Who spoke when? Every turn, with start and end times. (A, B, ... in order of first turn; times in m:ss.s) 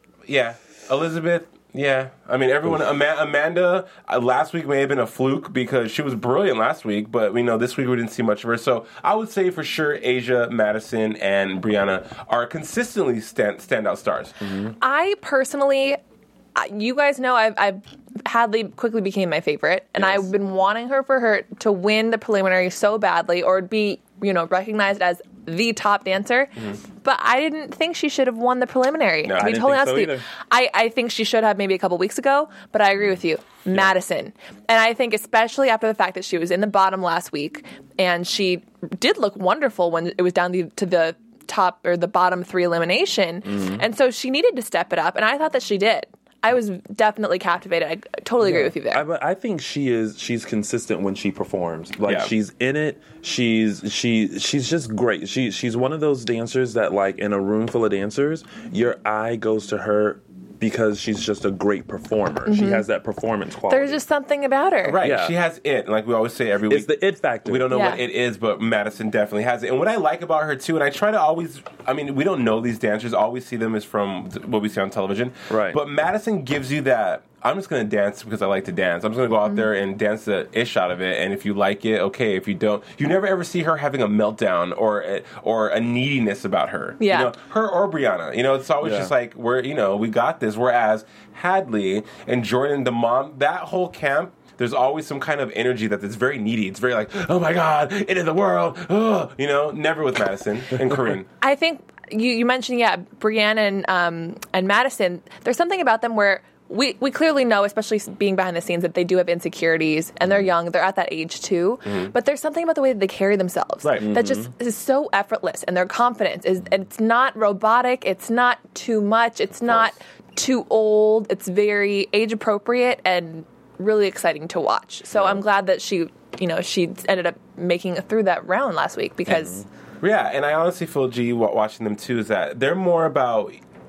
0:00.3-0:14.3 A
0:14.4-0:14.8 B
0:14.8-0:16.0 C
0:16.6-0:49.0 C
0:29.4-0:30.2 B
0:43.5-0:43.8 B
0:48.4-1:04.0 B
0:52.1-0:52.3 A
1:02.5-1:02.9 C
1:03.7-1:05.0 C
1:04.8-1:41.3 A
1:05.0-1:05.4 B
1:06.7-1:07.7 B
1:07.7-1:08.0 C
1:15.5-1:15.8 B
1:27.0-1:27.3 C
1:28.8-1:29.1 B
1:41.4-2:09.6 C
1:51.8-1:52.1 A
1:53.8-1:54.1 A
1:54.0-1:54.5 B
2:09.2-2:09.6 B
2:10.0-2:13.6 A